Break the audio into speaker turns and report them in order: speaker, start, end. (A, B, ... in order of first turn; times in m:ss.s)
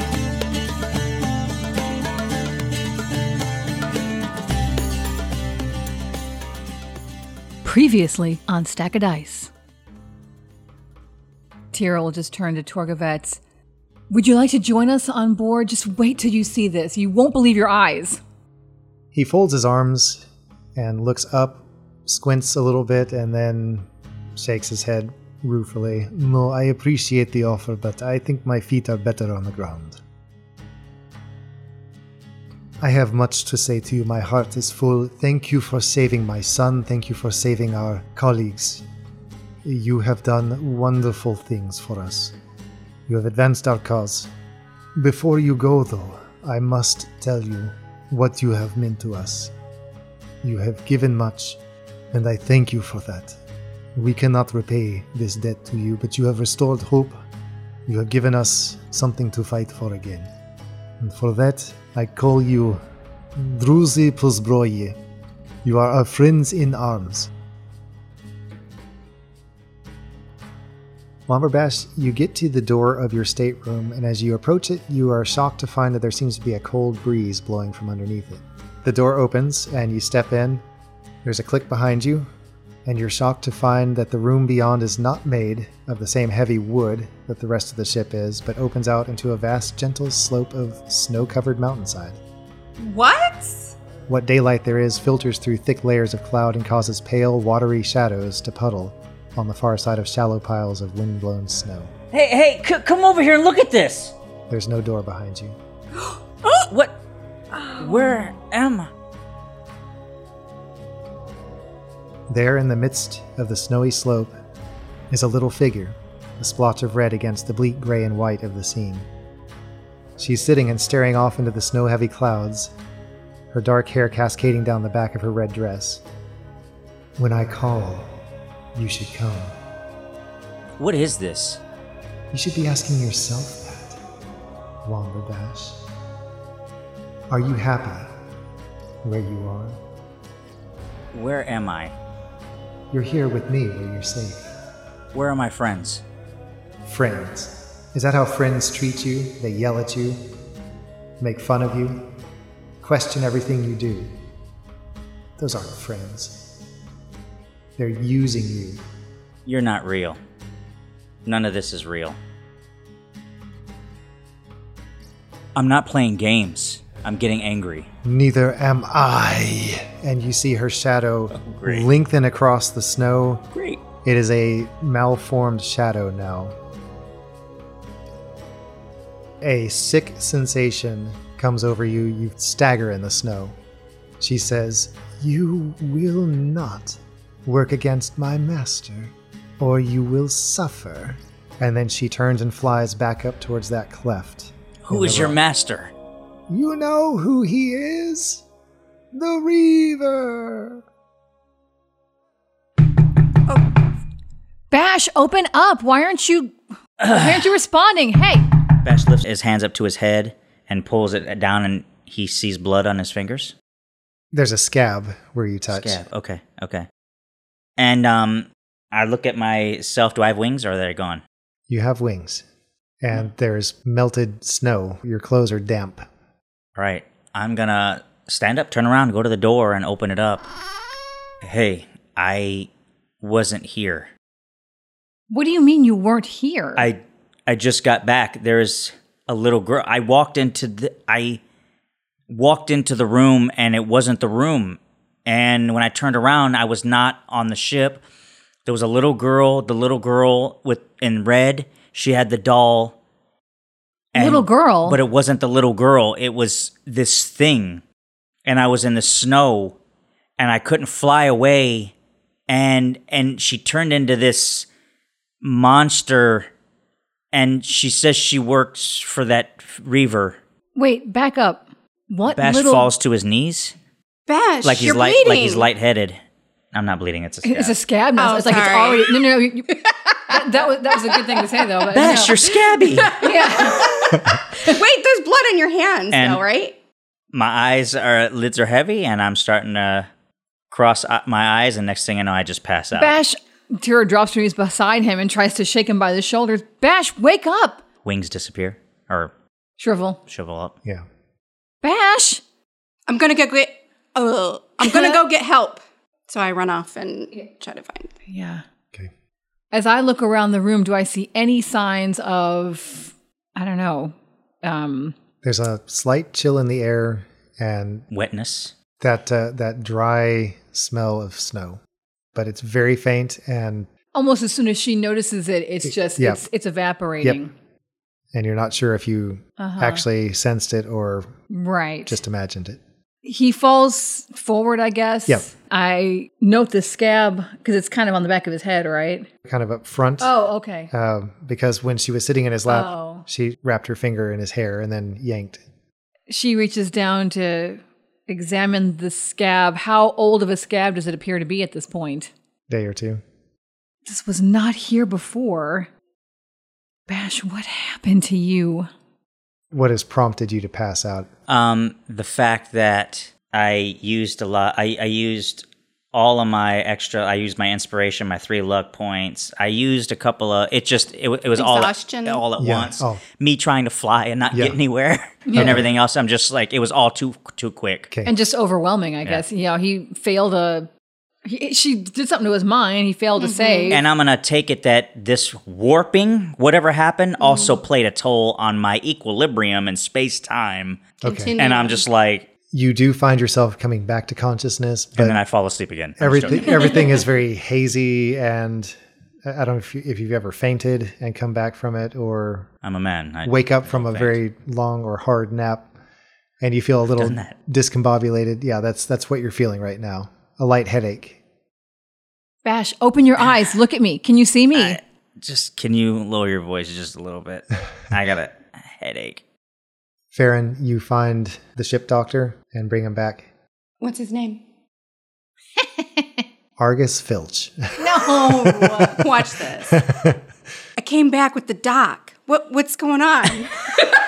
0:07.6-0:09.5 A
0:11.7-0:13.4 A
0:14.1-0:18.2 A
0:19.1-0:20.2 B
0:20.8-0:30.0 B
0:32.8-0:38.8 B
0:39.6-0:42.3 B
0:43.1-0:44.3 B
0:44.9-0:49.5 B
0:50.4-0:51.6 B
0:52.1-0:53.4 B
0:53.9-0:57.2 B
0:57.8-1:00.3 B
1:01.0-1:02.8 B
1:03.4-1:05.0 B
1:05.6-1:07.3 B
1:11.3-1:20.6 B
1:21.2-1:22.3 B
1:22.8-1:32.2 B
1:32.8-1:33.8 C
1:34.1-1:41.9 B
1:42.1-1:44.1 D
1:44.5-1:45.6 B
1:46.7-1:47.0 D
1:47.7-1:48.9 D
1:52.3-1:54.4 B
1:55.1-1:59.1 B
2:00.2-2:02.7 B
2:03.5-2:06.0 B
2:07.2-2:08.1 B
2:08.7-2:09.5 B
2:10.8-2:11.6 D
2:12.3-2:14.0 B
2:14.8-2:15.8 B
2:17.3-2:18.1 B
2:19.0-2:19.8 B
2:21.1-2:21.9 D
2:22.9-2:24.5 B
2:25.1-2:26.0 D
2:26.8-2:30.2 B
2:31.2-2:32.1 B
2:32.8-2:34.2 B
2:35.4-2:36.5 B
2:37.8-2:38.8 B
2:39.5-2:40.2 D
2:41.3-2:42.2 D
2:45.5-2:47.9 D
2:48.0-2:53.5 B
2:51.3-2:51.9 D
2:53.5-2:53.8 D
2:54.0-2:56.5 B
2:59.4-3:03.6 B
3:04.2-3:15.4 B
3:14.8-3:15.9 D
3:16.5-3:18.4 B
3:19.1-3:20.8 B
3:24.7-3:28.5 A
3:27.0-3:27.4 D
3:28.8-3:33.5 D
3:34.3-3:36.0 B
3:35.7-3:36.9 D
3:37.8-3:41.2 D
3:41.7-3:42.4 B
3:43.0-3:46.1 B
3:46.8-3:50.5 D
3:51.4-3:52.7 D
3:53.2-3:54.1 D
3:55.3-3:56.9 A
3:56.8-4:01.4 D
4:02.3-4:08.0 D
4:08.7-4:13.0 D
4:14.1-4:17.8 D
4:14.2-4:15.0 A
4:18.4-4:19.8 D
4:20.4-4:21.9 D
4:22.5-4:24.7 D
4:25.4-4:26.5 D
4:27.3-4:30.4 D
4:30.8-4:32.9 A
4:32.3-4:33.8 D
4:34.3-4:35.6 C
4:34.6-4:36.2 D
4:36.7-4:37.8 D
4:37.4-4:42.4 A
4:38.2-4:39.2 C
4:41.9-4:43.1 D
4:42.4-4:46.8 C
4:43.2-4:44.0 A
4:46.1-4:46.4 D
4:47.3-4:50.1 D
4:50.7-4:53.2 D
4:52.9-4:57.8 A
4:58.0-4:59.3 D
4:59.8-5:00.2 A
5:00.3-5:00.7 D
5:01.8-5:02.4 A
5:03.1-5:08.1 C
5:04.8-5:05.2 A
5:08.3-5:08.6 A
5:09.7-5:15.1 A
5:15.4-5:18.0 B
5:18.1-5:18.7 D
5:19.0-5:21.8 B
5:22.4-5:23.9 B
5:24.1-5:27.5 A
5:25.8-5:26.4 B
5:28.3-5:31.3 B
5:29.6-5:30.0 A
5:31.5-5:32.2 A
5:32.1-5:32.8 B
5:33.2-5:39.3 A
5:39.4-5:40.3 B
5:40.2-5:40.9 A
5:40.9-5:45.6 B
5:42.7-5:43.2 A
5:46.3-5:52.3 A
5:52.7-5:53.2 B
5:54.0-5:55.9 A
5:57.1-5:58.9 A
5:59.7-6:01.3 B
6:01.5-6:18.1 D
6:11.6-6:12.4 C
6:12.6-6:13.2 B
6:14.5-6:14.8 B
6:15.5-6:15.8 A
6:15.5-6:15.9 B
6:18.1-6:18.4 B
6:18.2-6:20.9 A
6:21.4-6:24.0 A
6:23.4-6:24.0 C
6:23.9-6:31.0 D
6:27.4-6:27.8 C
6:31.2-6:31.6 B
6:31.2-6:32.0 C
6:31.6-6:32.5 D
6:32.7-6:35.4 B
6:35.2-6:36.9 D
6:36.2-6:42.7 B
6:36.8-6:37.0 C
6:42.8-6:44.4 D
6:43.4-6:45.9 B
6:46.6-6:51.4 B
6:47.2-6:47.6 D
6:52.6-6:55.0 A
6:54.7-6:59.4 D
7:00.3-7:03.5 B
7:04.0-7:04.6 C
7:06.8-7:09.1 B
7:08.0-7:09.2 A
7:09.2-7:10.0 C
7:09.8-7:10.4 B
7:11.0-7:14.0 C